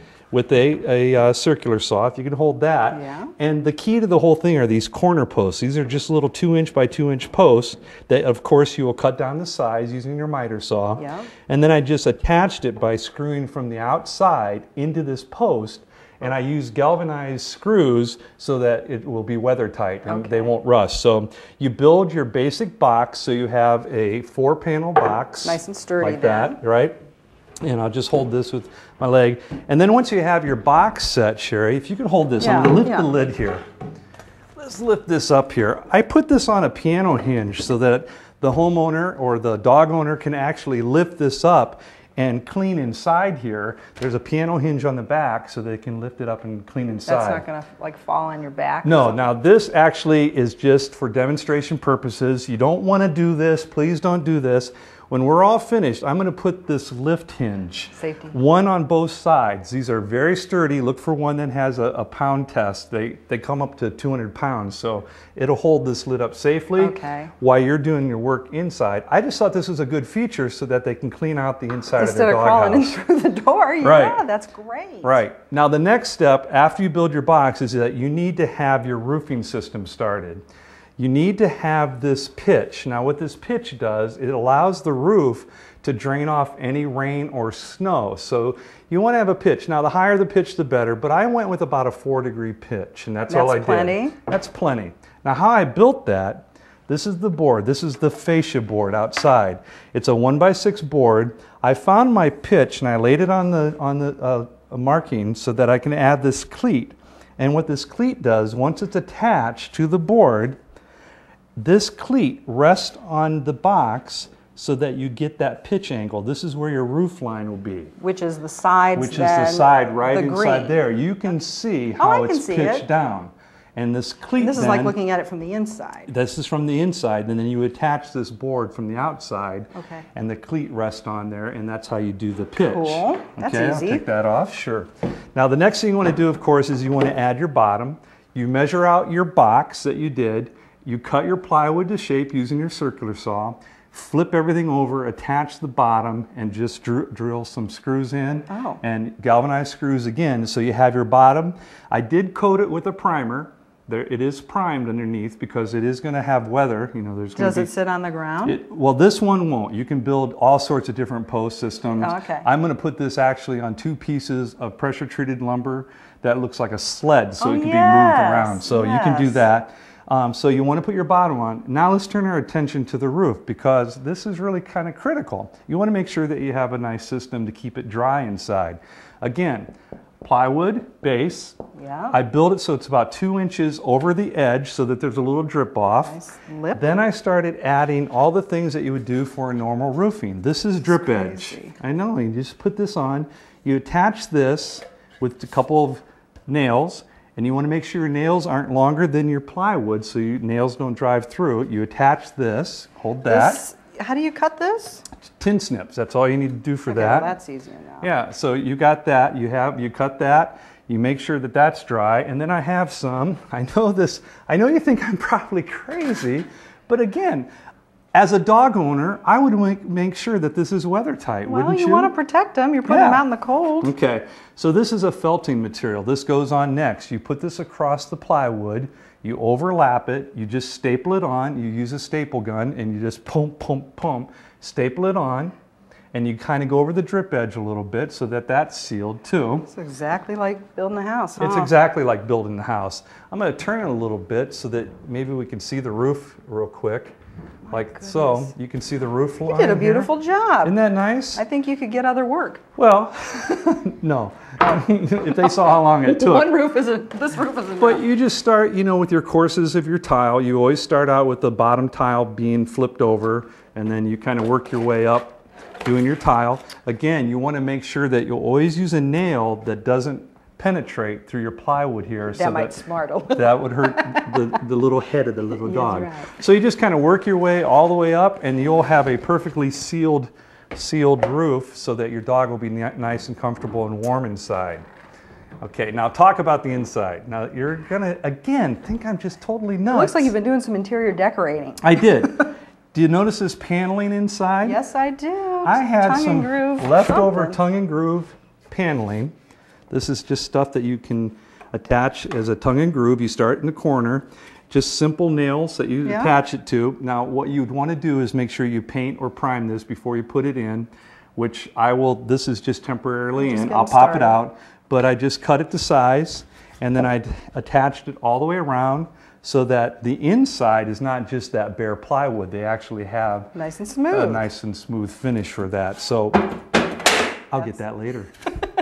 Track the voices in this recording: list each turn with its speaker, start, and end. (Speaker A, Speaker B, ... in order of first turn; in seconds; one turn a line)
Speaker A: 0.3-27.0
Speaker B: 2.9-3.3
Speaker B: 11.0-11.3
Speaker B: 20.1-20.5
Speaker B: 25.4-26.6
Speaker A: 27.6-33.6
Speaker B: 32.4-33.1
Speaker A: 34.6-47.5
Speaker B: 47.1-49.3
Speaker A: 48.8-73.0
Speaker B: 58.0-58.4
Speaker B: 66.8-67.3
Speaker B: 72.0-75.2
Speaker A: 73.8-74.2
Speaker A: 75.0-80.4
Speaker A: 81.0-110.6
Speaker B: 93.3-94.2
Speaker A: 111.6-117.9
Speaker B: 118.0-120.8
Speaker A: 119.0-125.0
Speaker B: 122.0-122.9
Speaker B: 124.4-126.1
Speaker A: 126.1-157.7
Speaker B: 129.8-130.1
Speaker B: 132.6-134.1
Speaker B: 148.5-148.8
Speaker B: 157.4-158.6
Speaker A: 158.4-179.7
Speaker B: 162.0-162.5
Speaker B: 167.4-169.4
Speaker A: 180.2-181.6
Speaker B: 181.8-182.2
Speaker A: 182.1-186.2
Speaker B: 186.1-187.0
Speaker A: 186.7-203.7
Speaker B: 190.8-191.7
Speaker B: 203.3-205.1
Speaker A: 205.3-207.3
Speaker B: 206.9-208.1
Speaker A: 208.0-217.5
Speaker A: 218.1-222.1
Speaker B: 221.5-223.9
Speaker A: 222.9-223.2
Speaker A: 223.8-235.5
Speaker A: 236.1-239.7
Speaker B: 239.7-241.7
Speaker A: 241.4-247.1
Speaker A: 247.7-250.1
Speaker B: 247.7-248.5
Speaker B: 249.5-250.8
Speaker A: 250.6-251.4
Speaker B: 251.3-252.6
Speaker A: 252.8-256.6
Speaker B: 255.3-258.0
Speaker A: 257.8-284.9
Speaker B: 272.3-274.4
Speaker B: 275.6-276.3
Speaker A: 285.6-290.3
Speaker B: 289.9-291.8
Speaker A: 291.8-294.8
Speaker B: 294.6-297.6
Speaker A: 295.6-299.3
Speaker A: 299.9-323.5
Speaker B: 306.1-306.3
Speaker B: 313.4-314.4
Speaker B: 323.5-324.4
Speaker A: 324.1-326.4
Speaker A: 327.5-328.3